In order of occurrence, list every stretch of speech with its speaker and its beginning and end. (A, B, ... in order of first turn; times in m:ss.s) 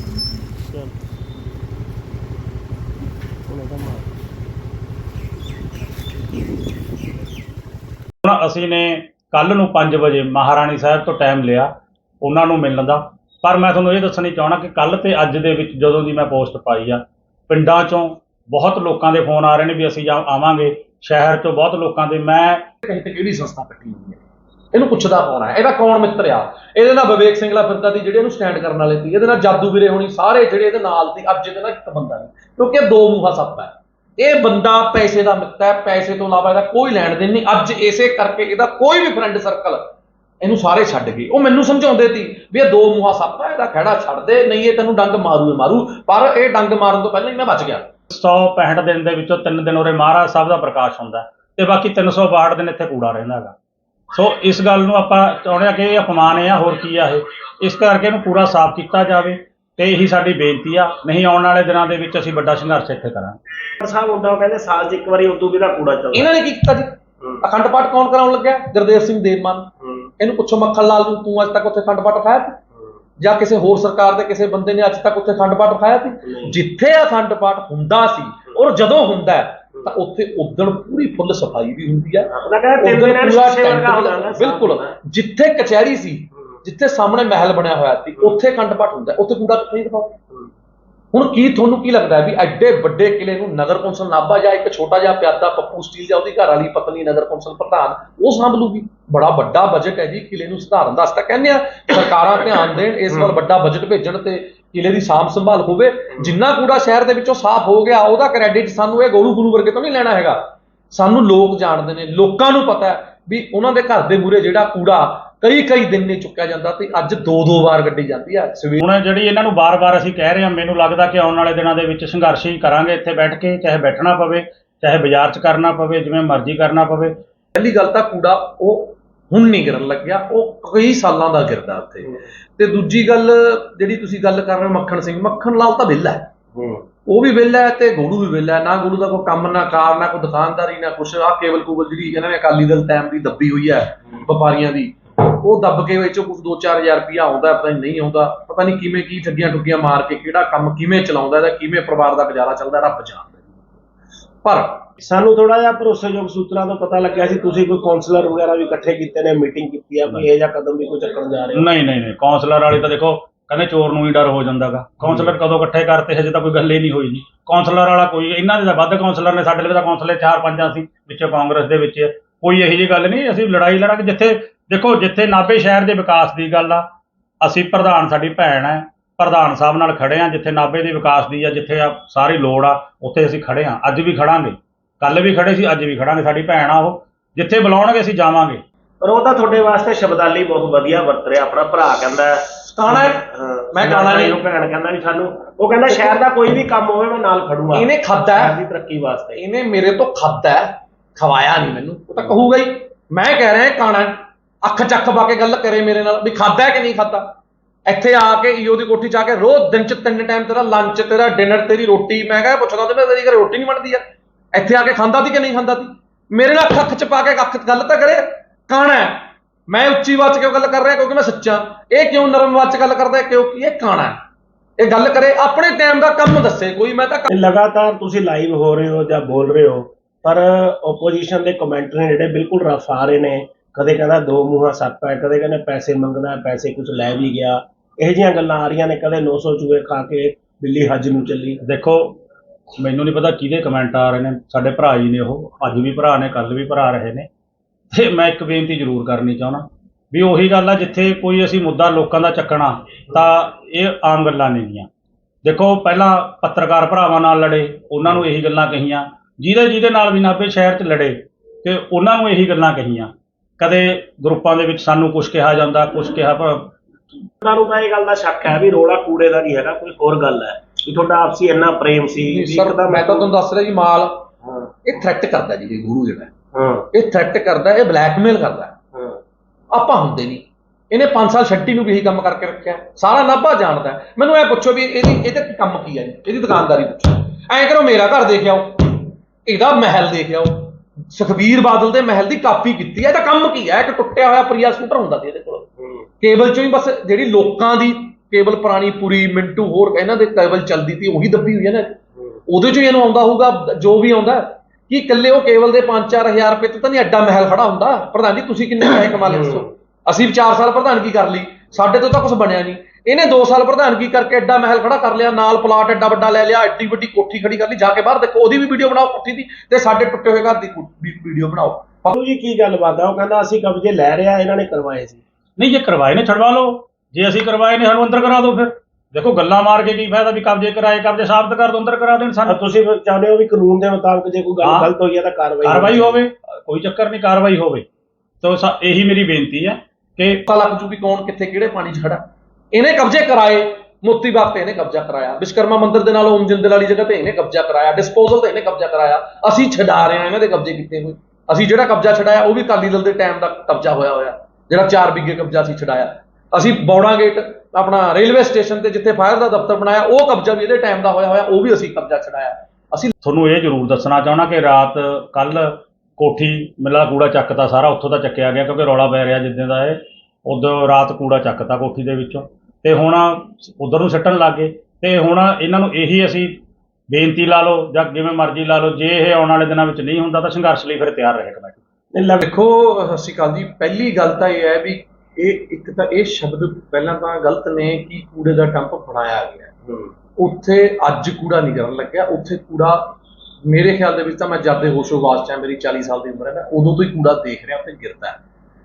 0:03.5-0:04.0 A
0:08.2-0:11.7 B
0:12.2-0:22.7 B
0:22.8-0:24.2 C
0:24.7-0:47.9 C
0:48.1-0:53.6 B
0:54.1-1:03.4 B
1:03.8-1:06.3 A
1:06.1-1:12.6 C
1:09.8-1:10.1 A
1:13.2-1:30.2 C
1:16.2-1:16.5 A
1:22.3-1:25.0 A
1:31.1-1:58.8 C
1:58.8-2:07.1 B
2:07.5-2:16.3 C
2:16.5-2:16.8 A
2:17.0-2:33.5 C
2:34.4-2:34.9 C
2:35.0-2:41.7 A
2:41.5-2:56.9 B
2:45.0-2:45.3 A
2:57.4-3:08.6 B
3:09.0-3:19.4 A
3:12.6-3:14.4 C
3:15.9-3:16.2 C
3:17.7-3:18.5 C
3:19.4-3:27.3 C
3:27.9-3:44.2 C
3:44.8-3:47.3 C
3:47.3-4:01.6 A
4:01.6-4:02.2 B
4:02.8-4:07.3 B
4:07.9-4:14.9 B
4:15.4-4:26.8 B
4:27.4-4:33.3 A
4:32.3-4:34.3 C
4:34.4-4:34.7 A
4:34.8-4:36.3 C
4:36.5-4:36.8 A
4:36.9-4:38.8 C
4:38.9-4:39.2 A
4:39.7-4:55.7 C
4:56.2-5:22.1 C
5:09.3-5:09.6 A
5:22.1-5:25.2 A
5:25.6-5:32.5 B
5:32.4-5:36.2 A
5:34.6-5:34.9 B
5:35.6-5:37.8 B
5:38.4-5:40.4 B
5:40.5-6:03.1 C
6:03.2-6:16.6 B
6:17.1-6:21.8 B
6:22.1-6:22.4 A
6:22.4-6:29.7 C
6:30.4-6:33.2 C
6:33.7-6:38.4 C